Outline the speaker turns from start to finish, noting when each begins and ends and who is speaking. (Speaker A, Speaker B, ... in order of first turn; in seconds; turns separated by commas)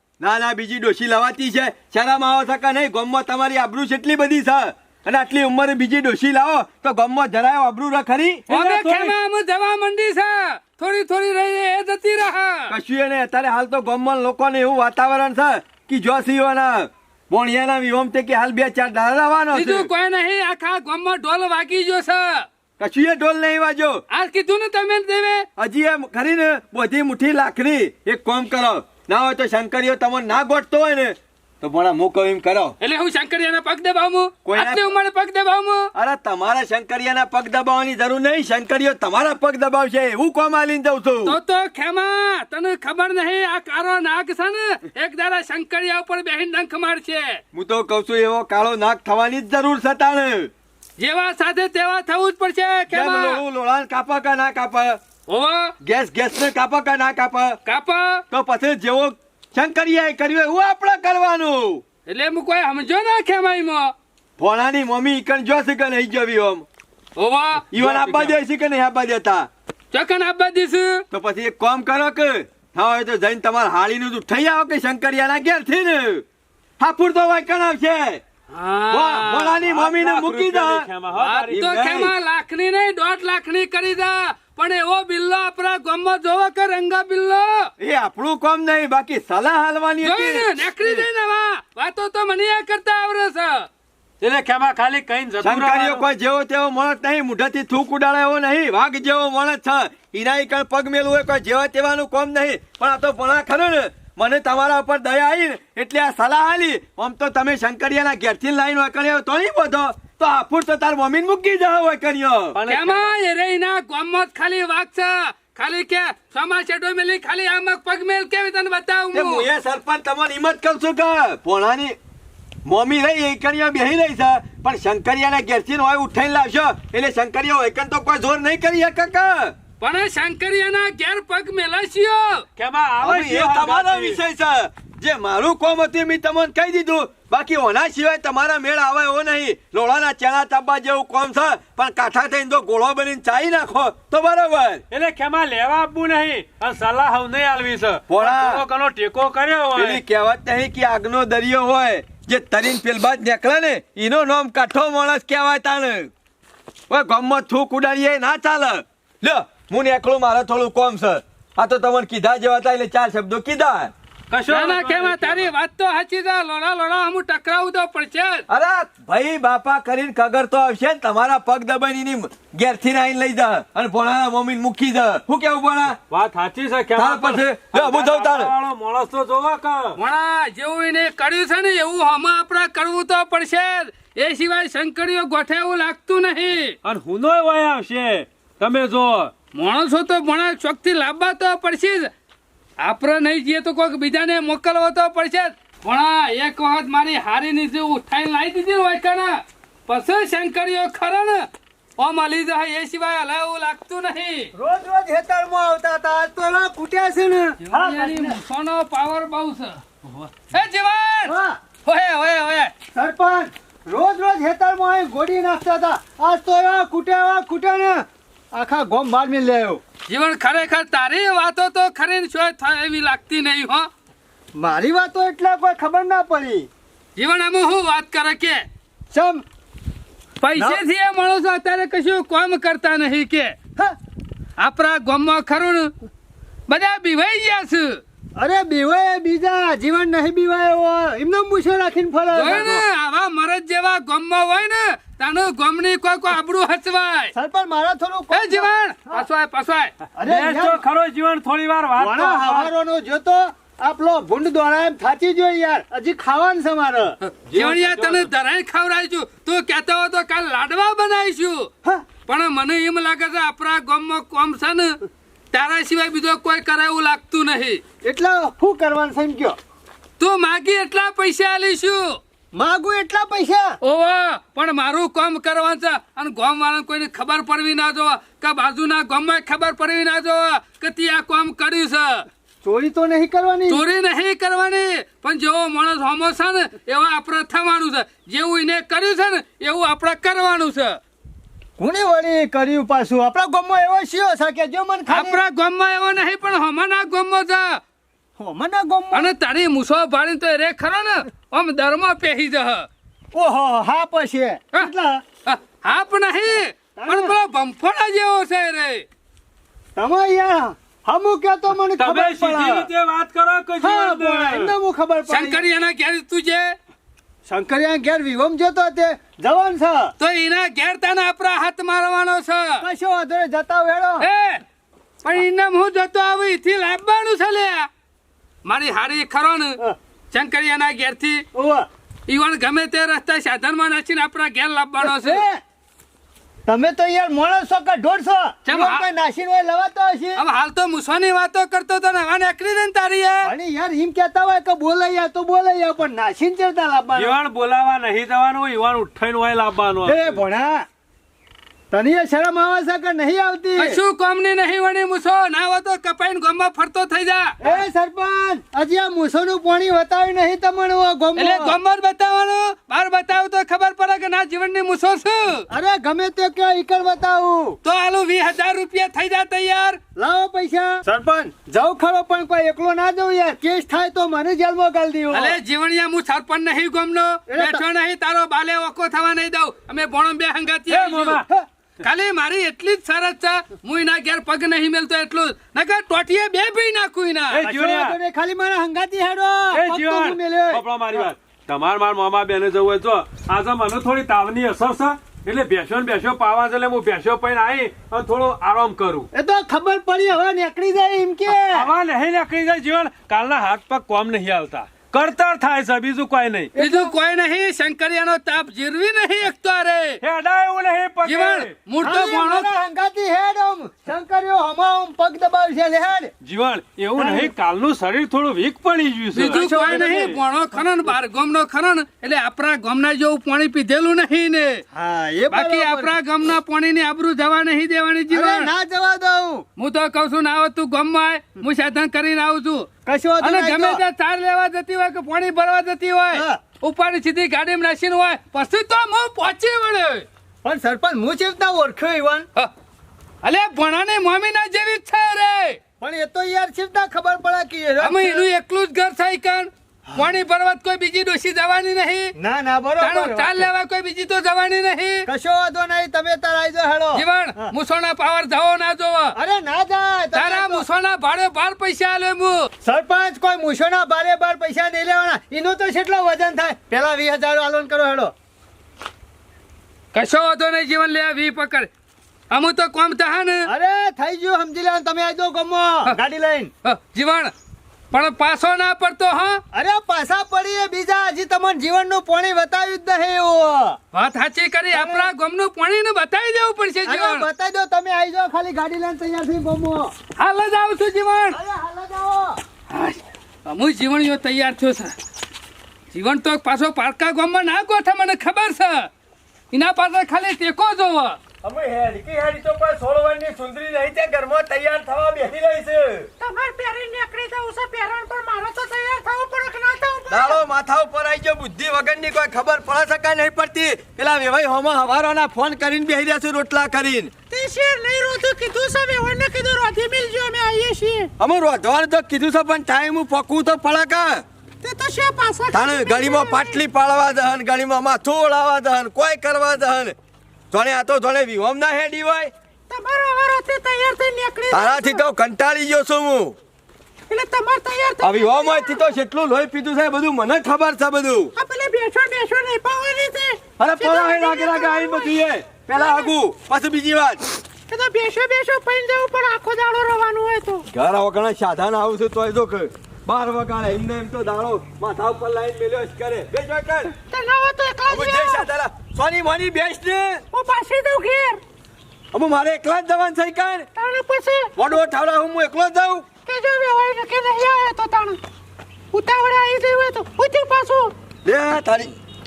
Speaker A: 0.2-8.5, Speaker B: 8.5-9.1, Speaker C: 8.5-12.7, Speaker A: 12.7-19.9, Speaker C: 19.5-22.5, Speaker A: 22.8-24.0, Speaker C: 24.1-25.5, Speaker A: 25.6-32.8, Speaker C: 32.8-35.9, Speaker A: 34.5-34.9, Speaker A: 36.0-41.4, Speaker C: 41.2-47.4, Speaker A: 47.5-50.5, Speaker C: 51.0-53.4, Speaker A: 52.9-55.0, Speaker C: 55.3-55.8, Speaker A: 55.8-57.6, Speaker C: 57.7-58.2, Speaker A: 58.3-61.8, Speaker C: 62.1-63.9, Speaker A: 64.4-66.7, Speaker C: 67.2-67.7, Speaker A: 67.7-69.5, Speaker B: 67.7-68.4, Speaker C: 69.9-71.0, Speaker A: 71.1-76.2, Speaker A: 76.8-78.2, Speaker C: 78.5-79.5, Speaker A: 78.9-80.9, Speaker B: 79.6-82.1, Speaker C: 81.1-87.7, Speaker A: 81.5-82.1, Speaker A: 87.8-91.0, Speaker C: 90.0-93.7, Speaker B: 94.2-96.1, Speaker A: 95.4-112.6, Speaker B: 112.5-113.1, Speaker C: 112.7-119.5, Speaker A: 119.1-122.0, Speaker A: 122.7-129.6, Speaker C: 129.8-132.5, Speaker B: 132.6-134.2, Speaker A: 133.0-144.8, Speaker B: 144.9-150.0, Speaker A: 148.1-148.6, Speaker A: 149.8-156.1, Speaker A: 156.9-163.9, Speaker B: 164.3-165.5, Speaker C: 164.5-168.4, Speaker A: 168.5-176.0, Speaker B: 176.1-180.0, Speaker A: 176.9-178.5, Speaker C: 180.0-186.8, Speaker B: 186.8-189.3, Speaker C: 189.6-192.1, Speaker C: 192.8-201.5, Speaker C: 202.0-204.5, Speaker D: 204.6-208.4, Speaker C: 207.6-209.8, Speaker C: 210.5-211.3, Speaker D: 211.3-211.6, Speaker C: 211.9-212.7, Speaker D: 212.9-219.8, Speaker C: 220.1-223.9, Speaker D: 224.6-226.7, Speaker C: 227.2-228.7, Speaker D: 229.1-229.4, Speaker C: 230.4-233.6, Speaker D: 230.6-230.8, Speaker C: 234.6-235.9, Speaker C: 236.7-238.0, Speaker D: 238.4-242.8, Speaker C: 242.3-247.3, Speaker D: 247.3-249.3, Speaker C: 248.3-249.9, Speaker D: 250.2-250.8, Speaker B: 250.2-252.7, Speaker D: 251.9-257.2, Speaker C: 257.2-261.7, Speaker B: 257.5-258.3, Speaker C: 262.3-265.0, Speaker C: 265.5-267.8, Speaker D: 268.0-269.6, Speaker C: 270.2-272.2, Speaker D: 272.5-273.8, Speaker C: 273.8-282.3, Speaker D: 282.6-283.8, Speaker C: 283.7-291.0, Speaker D: 291.8-295.4, Speaker C: 295.1-297.8, Speaker D: 298.4-299.3, Speaker C: 299.1-302.9, Speaker D: 303.3-305.2, Speaker C: 305.5-309.1, Speaker D: 307.0-307.4, Speaker D: 310.0-312.9, Speaker B: 312.0-314.7, Speaker D: 313.8-315.6, Speaker C: 315.3-316.8, Speaker D: 317.5-320.1, Speaker C: 320.2-322.8, Speaker D: 322.8-324.3, Speaker C: 324.2-324.6, Speaker C: 325.2-327.9, Speaker C: 328.6-329.8, Speaker C: 330.3-331.4, Speaker D: 331.5-331.9, Speaker C: 332.3-335.4, Speaker D: 335.0-335.6, Speaker D: 336.7-340.4, Speaker C: 338.7-339.1, Speaker C: 340.4-343.5, Speaker D: 343.5-347.4, Speaker B: 347.2-350.4, Speaker D: 350.0-350.9, Speaker D: 351.9-354.0, Speaker C: 353.8-357.6, Speaker D: 357.6-361.8, Speaker C: 361.4-365.7, Speaker D: 365.7-367.8, Speaker C: 367.8-370.0, Speaker D: 370.2-375.6, Speaker C: 375.3-381.4, Speaker D: 377.5-377.8, Speaker B: 380.9-381.5, Speaker C: 382.0-387.6, Speaker B: 387.5-388.2, Speaker D: 387.6-391.3, Speaker B: 389.7-399.3, Speaker D: 399.3-401.9, Speaker B: 401.6-406.8, Speaker D: 406.8-407.1, Speaker C: 406.8-410.2, Speaker B: 410.2-411.8, Speaker C: 411.2-412.7, Speaker D: 412.0-416.3, Speaker B: 416.4-420.4, Speaker D: 417.2-417.5, Speaker C: 419.3-424.8, Speaker D: 419.5-420.4, Speaker D: 424.9-426.2, Speaker C: 425.5-428.7, Speaker D: 428.3-429.6, Speaker C: 429.8-432.9, Speaker D: 433.1-434.0, Speaker C: 433.4-440.3, Speaker D: 436.3-436.6, Speaker D: 440.6-442.5, Speaker C: 443.4-445.8, Speaker D: 446.0-448.4, Speaker C: 448.0-452.3, Speaker D: 452.4-453.7, Speaker C: 453.0-455.3, Speaker D: 455.3-457.7, Speaker C: 457.1-459.4, Speaker D: 459.4-460.9, Speaker C: 460.3-462.7, Speaker D: 462.8-468.3, Speaker C: 470.1-471.9, Speaker C: 472.5-473.7, Speaker D: 473.7-476.7, Speaker C: 476.9-477.5, Speaker C: 478.1-479.6, Speaker D: 479.7-484.0, Speaker C: 484.1-487.5, Speaker D: 484.9-485.3, Speaker D: 487.1-490.1, Speaker C: 490.4-491.6, Speaker D: 491.5-492.6, Speaker C: 492.9-495.1, Speaker C: 496.1-499.1, Speaker C: 499.7-501.4, Speaker A: 501.6-506.3, Speaker E: 506.4-510.6, Speaker A: 510.3-517.3, Speaker E: 517.5-521.3, Speaker A: 521.4-524.4, Speaker E: 524.8-526.8, Speaker A: 525.7-530.1, Speaker A: 530.7-532.5, Speaker E: 532.9-535.2, Speaker A: 534.7-536.6, Speaker E: 537.3-539.1, Speaker A: 538.2-541.5, Speaker E: 541.6-545.3, Speaker A: 543.8-547.5, Speaker E: 545.9-546.3, Speaker E: 547.9-550.9, Speaker A: 550.9-557.1, Speaker E: 557.3-558.7, Speaker A: 558.1-560.4, Speaker E: 560.5-561.6, Speaker A: 562.3-563.9, Speaker E: 564.0-564.7, Speaker A: 564.8-566.3, Speaker E: 566.5-568.4, Speaker E: 569.1-571.1, Speaker A: 571.5-572.1